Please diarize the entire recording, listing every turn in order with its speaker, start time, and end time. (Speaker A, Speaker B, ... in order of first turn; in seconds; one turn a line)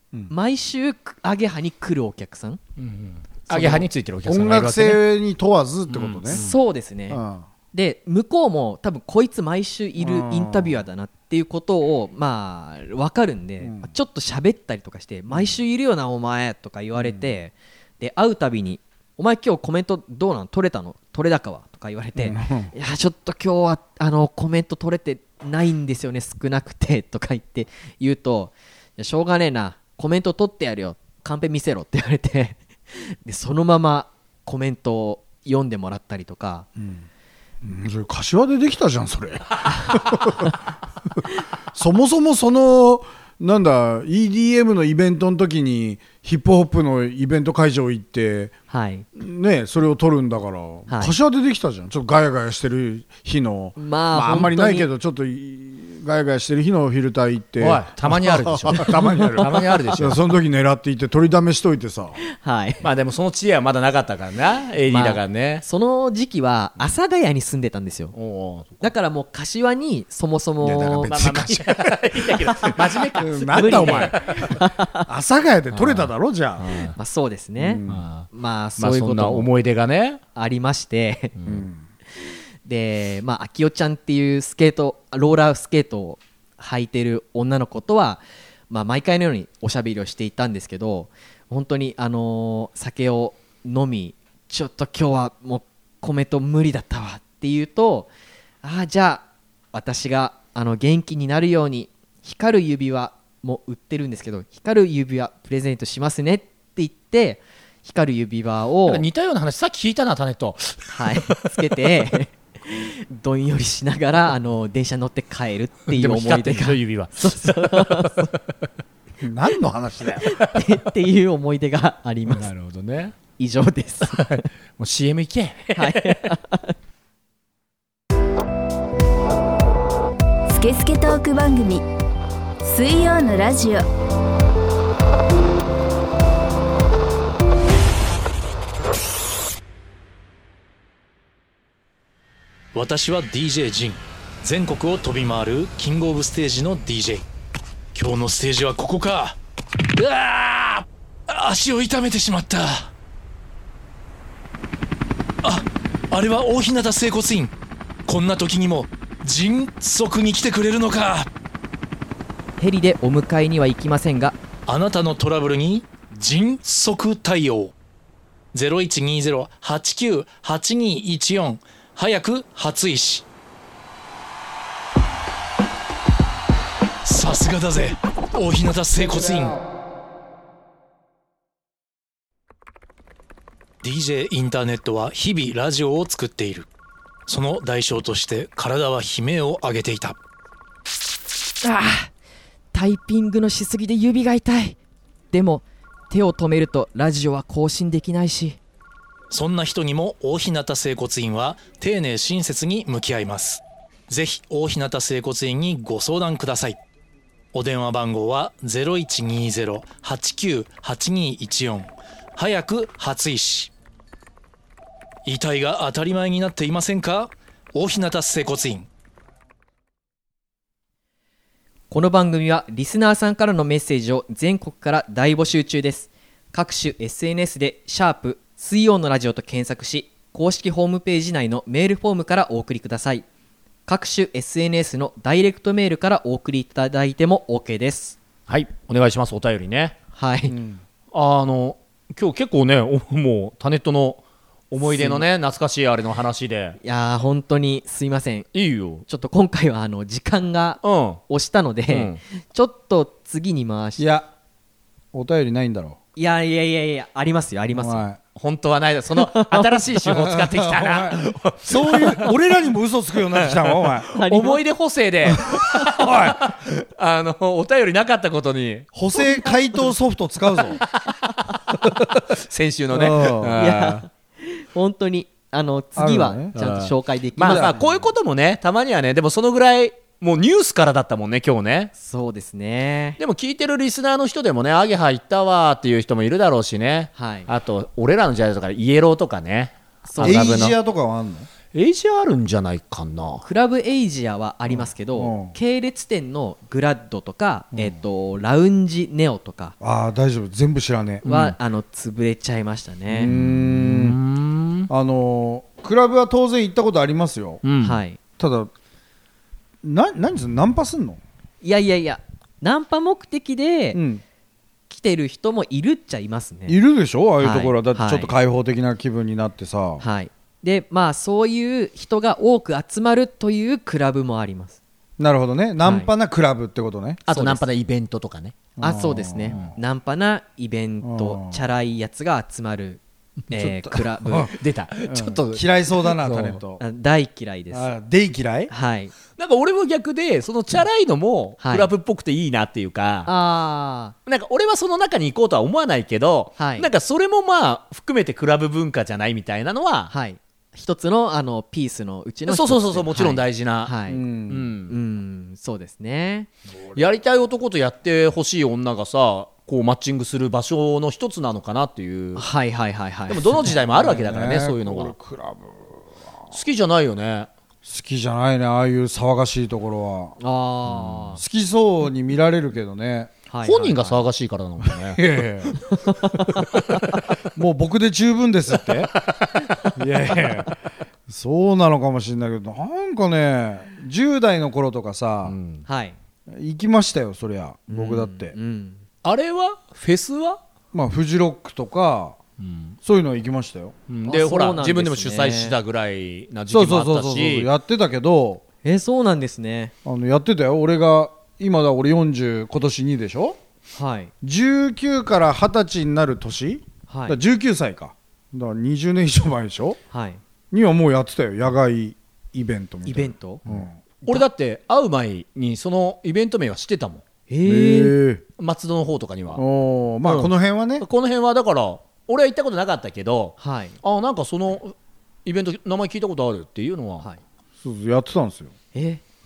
Speaker A: 0.3-2.6
Speaker B: 2.8-5.1
Speaker C: 3.5-6.4
Speaker B: 5.9-6.5
Speaker A: 6.3-7.2
Speaker C: 7.1-7.5
Speaker A: 7.7-36.7
Speaker C: 10.0-10.8
Speaker C: 13.6-13.9
Speaker C: 15.3-15.6
Speaker C: 17.0-17.2
Speaker C: 22.1-22.7
Speaker C: 36.8-37.1
Speaker C: 37.6-40.6
Speaker C: 41.7-48.5
Speaker A: 48.7-49.1
Speaker C: 49.1-62.2
Speaker A: 50.9-51.1
Speaker A: 53.8-54.9
Speaker B: 57.6-60.2
Speaker A: 58.7-59.2
Speaker A: 62.3-62.9
Speaker B: 62.8-65.6
Speaker A: 64.9-68.1
Speaker B: 68.1-68.9
Speaker A: 68.8-71.4
Speaker C: 70.6-71.8
Speaker B: 71.0-74.6
Speaker C: 73.1-76.9
Speaker A: 73.5-75.1
Speaker B: 75.7-77.0
Speaker A: 77.0-79.5
Speaker C: 77.6-78.0
Speaker B: 77.9-78.3
Speaker B: 78.8-80.2
Speaker A: 80.3-81.3
Speaker B: 81.4-81.6
Speaker C: 81.5-81.8
Speaker A: 82.6-98.1
Speaker A: 98.6-109.0
Speaker B: 108.9-111.4
Speaker A: 110.9-118.3
Speaker B: 115.9-118.3
Speaker C: 119.2-120.3
Speaker A: 120.2-122.5
Speaker B: 122.3-123.2
Speaker A: 123.4-124.5
Speaker B: 124.1-126.3
Speaker A: 125.8-126.8
Speaker D: 130.5-131.8
Speaker D: 132.6-133.9
Speaker E: 142.7-147.2
Speaker E: 147.9-149.4
Speaker E: 149.9-152.9
Speaker E: 155.4-157.5
Speaker E: 158.1-161.3
Speaker A: 162.6-164.4
Speaker E: 164.7-167.7
Speaker E: 168.5-173.3
Speaker E: 177.0-179.6
Speaker E: 183.8-186.7
Speaker E: 187.3-190.2
Speaker A: 191.6-192.1
Speaker A: 192.7-194.8
Speaker A: 195.3-198.6
Speaker E: 199.3-206.8
Speaker E: 207.5-213.7
Speaker E: 215.2-218.9
Speaker A: 221.9-233.3
Speaker A: 233.9-238.2
Speaker B: 238.5-240.0
Speaker A: 240.1-240.6
Speaker C: 240.5-240.8
Speaker B: 241.1-246.8
Speaker A: 244.9-245.2
Speaker A: 246.8-248.5
Speaker B: 248.5-249.1
Speaker A: 249.1-254.1
Speaker B: 250.8-251.2
Speaker B: 251.9-252.2
Speaker C: 254.0-254.3
Speaker C: 255.1-256.0
Speaker A: 256.1-258.1
Speaker C: 257.7-258.2
Speaker B: 258.4-262.3
Speaker A: 259.1-260.0
Speaker C: 260.1-264.1
Speaker B: 263.3-268.9
Speaker A: 264.1-264.6
Speaker C: 265.3-266.5
Speaker C: 268.9-270.8
Speaker B: 271.7-274.1
Speaker C: 272.9-273.6
Speaker A: 273.6-277.8
Speaker C: 276.0-276.6
Speaker B: 276.6-281.9
Speaker C: 277.4-278.0
Speaker A: 282.0-283.2
Speaker B: 283.2-290.8
Speaker A: 287.1-287.5
Speaker A: 290.1-290.7
Speaker C: 290.2-291.5
Speaker B: 291.7-293.4
Speaker A: 293.4-299.8
Speaker C: 294.7-295.6
Speaker C: 299.8-301.3
Speaker B: 301.2-301.6
Speaker A: 301.2-303.3
Speaker C: 303.1-304.2
Speaker B: 303.3-304.9
Speaker C: 304.9-307.6
Speaker B: 307.6-308.0
Speaker A: 307.8-308.2
Speaker C: 308.4-308.7
Speaker C: 309.8-311.2
Speaker A: 311.6-314.0
Speaker C: 313.9-314.2
Speaker A: 314.9-316.8
Speaker C: 316.7-320.0
Speaker A: 317.4-318.3
Speaker A: 320.0-324.8
Speaker C: 325.2-327.3
Speaker A: 325.8-326.1
Speaker B: 327.3-328.6
Speaker A: 327.3-327.6
Speaker C: 328.8-329.8
Speaker A: 328.8-334.5
Speaker C: 331.0-331.6
Speaker C: 333.5-336.8
Speaker B: 334.5-336.6
Speaker A: 336.8-337.9
Speaker C: 337.7-338.7
Speaker A: 338.7-339.1
Speaker B: 339.4-343.3
Speaker A: 341.6-341.9
Speaker A: 343.3-344.1
Speaker B: 344.3-350.1
Speaker A: 346.6-346.9
Speaker A: 350.1-354.2
Speaker B: 352.5-353.9
Speaker C: 354.1-354.7
Speaker B: 354.5-354.9
Speaker A: 354.9-356.5
Speaker B: 356.9-362.4
Speaker A: 362.4-363.8
Speaker B: 363.3-365.1
Speaker C: 363.7-366.1
Speaker B: 366.5-367.5
Speaker C: 367.8-370.4
Speaker A: 370.4-371.4
Speaker B: 370.9-371.2
Speaker C: 371.4-373.3
Speaker A: 373.5-374.2
Speaker B: 373.6-375.3
Speaker C: 374.8-375.8
Speaker A: 375.9-376.6
Speaker C: 377.6-379.1
Speaker B: 379.2-379.6
Speaker C: 380.0-380.8
Speaker C: 381.3-385.6
Speaker B: 385.4-385.8
Speaker A: 385.9-386.1
Speaker C: 386.5-388.6
Speaker A: 387.9-389.0
Speaker B: 389.2-390.6
Speaker C: 390.9-392.4
Speaker B: 392.6-393.0
Speaker C: 393.0-393.9
Speaker B: 394.1-397.7
Speaker A: 394.3-395.8
Speaker C: 396.7-398.6
Speaker A: 398.8-399.9
Speaker C: 400.1-403.6
Speaker A: 403.9-404.3
Speaker C: 404.4-410.0
Speaker A: 407.1-407.4
Speaker A: 410.1-410.4
Speaker C: 410.7-414.0
Speaker A: 413.1-413.6
Speaker B: 413.6-417.2
Speaker A: 417.5-418.2
Speaker C: 417.6-418.4
Speaker B: 418.6-419.6
Speaker C: 419.6-421.1
Speaker B: 420.2-427.3
Speaker A: 423.6-424.0
Speaker C: 427.8-428.7
Speaker A: 428.9-429.2